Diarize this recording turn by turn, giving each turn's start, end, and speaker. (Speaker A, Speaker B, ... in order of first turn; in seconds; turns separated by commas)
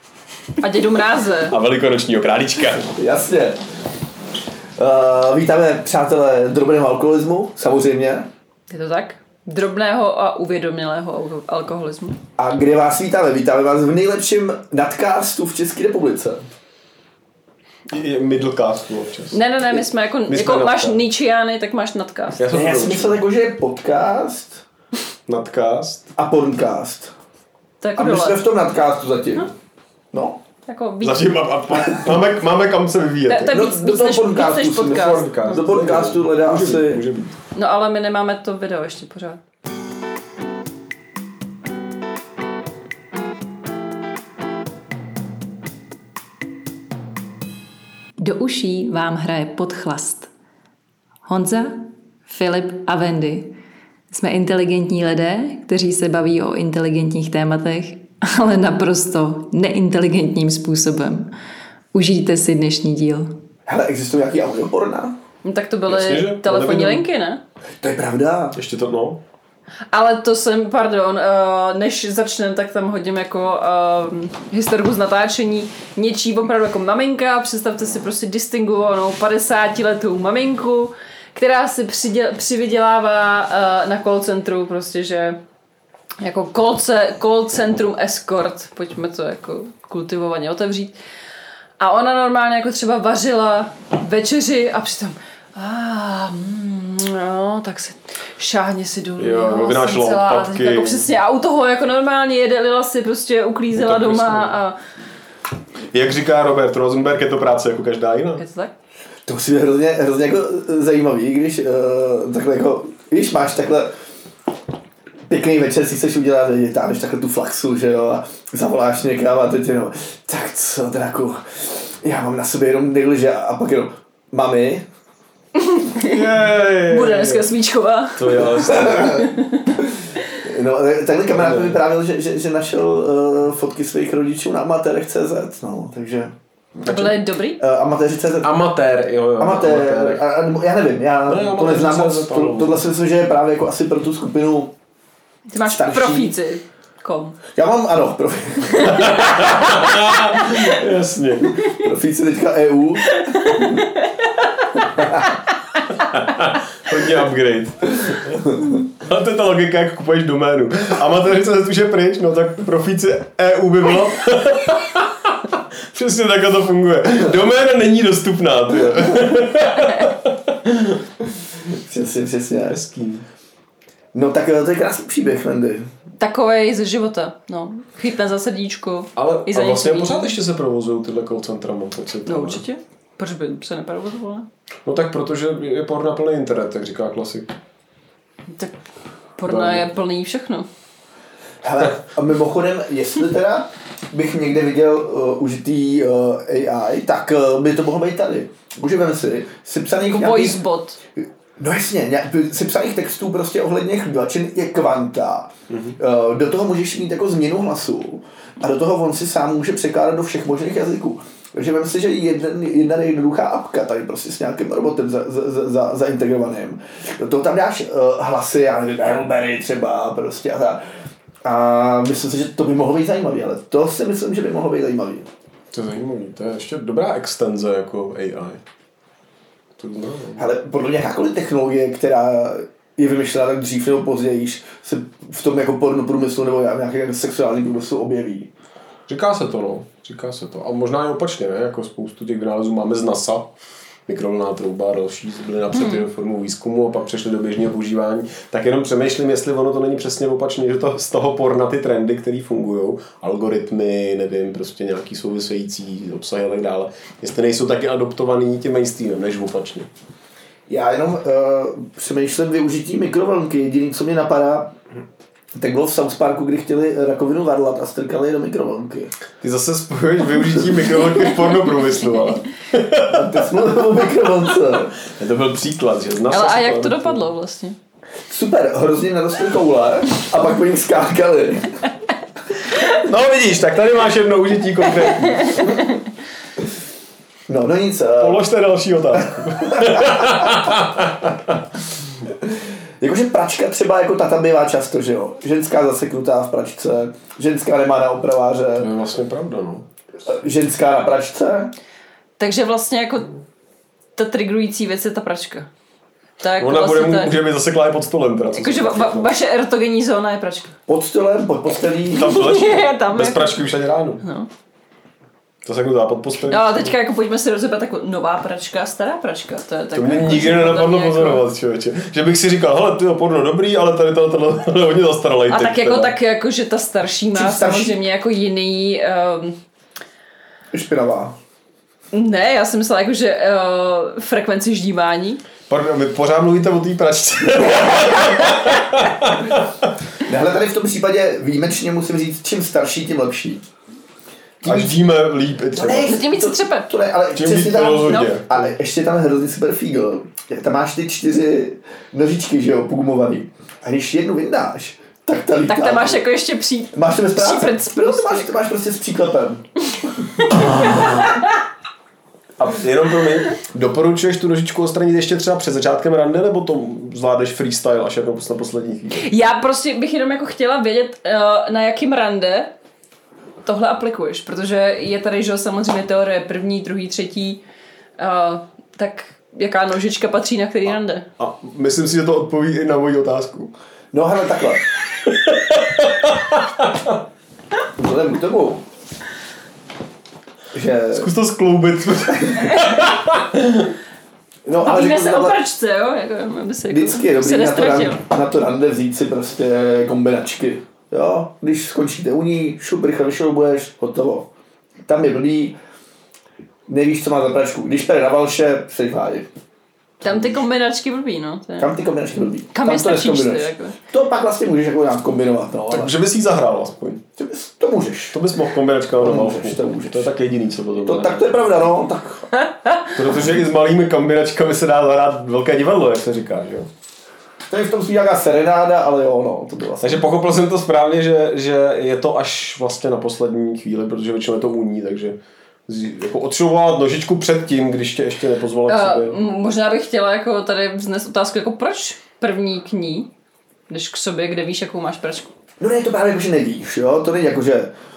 Speaker A: 0.6-1.6, Speaker B: 1.5-2.9, Speaker C: 2.9-3.6, Speaker C: 4.8-8.3, Speaker A: 8.7-12.2, Speaker C: 12.4-16.4, Speaker B: 17.9-19.4, Speaker A: 19.3-22.4, Speaker B: 20.3-21.0, Speaker B: 22.4-23.2, Speaker C: 22.5-24.6, Speaker B: 25.3-26.1, Speaker C: 26.1-27.1, Speaker A: 27.8-28.4, Speaker C: 27.9-29.5, Speaker C: 30.1-30.4, Speaker A: 30.7-31.3, Speaker B: 31.0-33.6, Speaker A: 33.2-35.7, Speaker C: 33.5-37.0, Speaker B: 34.8-37.4, Speaker A: 37.5-39.4, Speaker A: 48.2-50.3, Speaker A: 51.3-51.7, Speaker A: 52.3-53.5, Speaker A: 54.1-61.2, Speaker A: 61.9-63.3, Speaker C: 63.6-65.2, Speaker A: 65.4-67.4, Speaker B: 65.9-67.0, Speaker C: 67.8-68.6, Speaker B: 68.5-69.2, Speaker A: 69.9-85.4, Speaker A: 86.2-90.9, Speaker A: 91.8-104.8, Speaker B: 99.2-101.1, Speaker B: 103.7-104.6, Speaker B: 105.9-108.4, Speaker A: 108.4-108.7, Speaker C: 109.2-113.9, Speaker C: 115.3-124.8, Speaker A: 125.6-126.2, Speaker B: 126.0-127.5, Speaker A: 126.8-129.8, Speaker B: 128.2-129.3, Speaker C: 128.5-137.1, Speaker B: 131.3-131.8, Speaker A: 136.8-137.6, Speaker B: 136.9-137.1, Speaker C: 137.6-138.5, Speaker B: 138.4-140.2, Speaker C: 139.4-144.7, Speaker B: 141.3-142.8, Speaker A: 145.5-147.4, Speaker C: 145.6-146.3, Speaker C: 147.5-149.3, Speaker B: 148.8-151.6, Speaker C: 151.7-153.8, Speaker A: 153.1-154.8, Speaker C: 154.9-155.3, Speaker B: 156.0-171.0, Speaker C: 168.8-169.3, Speaker C: 171.7-172.8, Speaker B: 172.7-173.2, Speaker C: 174.1-175.8, Speaker A: 176.2-180.3, Speaker B: 179.2-182.6, Speaker A: 182.2-184.5, Speaker B: 184.8-187.5, Speaker A: 189.4-190.7, Speaker B: 189.4-189.9, Speaker C: 191.6-200.6, Speaker A: 200.1-201.0, Speaker C: 201.2-220.8, Speaker C: 221.4-225.2, Speaker B: 225.7-228.6, Speaker B: 229.8-230.4, Speaker C: 230.4-238.5, Speaker B: 239.1-243.5, Speaker B: 244.1-259.9, Speaker A: 245.7-246.0, Speaker C: 260.7-264.7, Speaker C: 265.5-269.1, Speaker B: 269.4-273.4, Speaker C: 273.0-274.9, Speaker B: 275.1-277.2, Speaker A: 276.3-277.8, Speaker C: 278.3-281.8, Speaker B: 282.8-285.8, Speaker A: 285.3-286.0, Speaker C: 287.5-288.4, Speaker B: 288.2-291.6, Speaker C: 289.2-290.4, Speaker C: 292.4-298.9, Speaker B: 298.8-299.8, Speaker C: 300.2-301.7, Speaker A: 302.4-303.3, Speaker A: 304.2-305.7, Speaker A: 306.4-307.3, Speaker B: 306.6-309.3, Speaker A: 308.5-310.7, Speaker C: 310.9-312.4, Speaker B: 312.1-314.2, Speaker A: 312.1-313.6, Speaker A: 314.2-314.5, Speaker B: 315.6-316.9, Speaker A: 316.4-321.4, Speaker B: 319.9-326.1, Speaker A: 325.5-329.6, Speaker C: 327.3-328.0, Speaker C: 330.7-331.4, Speaker A: 332.1-335.4, Speaker B: 335.7-339.9, Speaker C: 340.2-343.6, Speaker C: 344.6-345.0, Speaker B: 344.6-346.2, Speaker C: 345.7-356.2, Speaker A: 345.9-346.9, Speaker B: 347.3-348.5, Speaker A: 355.7-358.5, Speaker C: 356.9-361.0, Speaker A: 360.4-361.4, Speaker B: 360.6-361.2, Speaker B: 362.6-369.2, Speaker A: 369.1-372.7, Speaker A: 373.6-377.6, Speaker A: 378.2-381.2, Speaker B: 381.4-383.7, Speaker C: 384.1-384.8, Speaker B: 385.2-387.2, Speaker C: 388.0-388.8, Speaker C: 390.7-391.3, Speaker B: 391.1-393.9, Speaker C: 394.6-395.6, Speaker A: 394.8-398.2, Speaker C: 396.9-404.5, Speaker C: 405.1-405.8, Speaker C: 406.9-409.5, Speaker A: 410.2-411.9, Speaker C: 411.8-416.1, Speaker A: 412.7-414.0, Speaker B: 415.9-417.2, Speaker C: 417.4-418.4, Speaker B: 418.3-421.7, Speaker C: 419.2-420.3, Speaker C: 421.0-422.5, Speaker B: 423.1-426.9, Speaker C: 427.7-430.3, Speaker B: 430.0-439.4, Speaker A: 438.9-443.3, Speaker A: 443.9-445.5, Speaker C: 445.8-447.9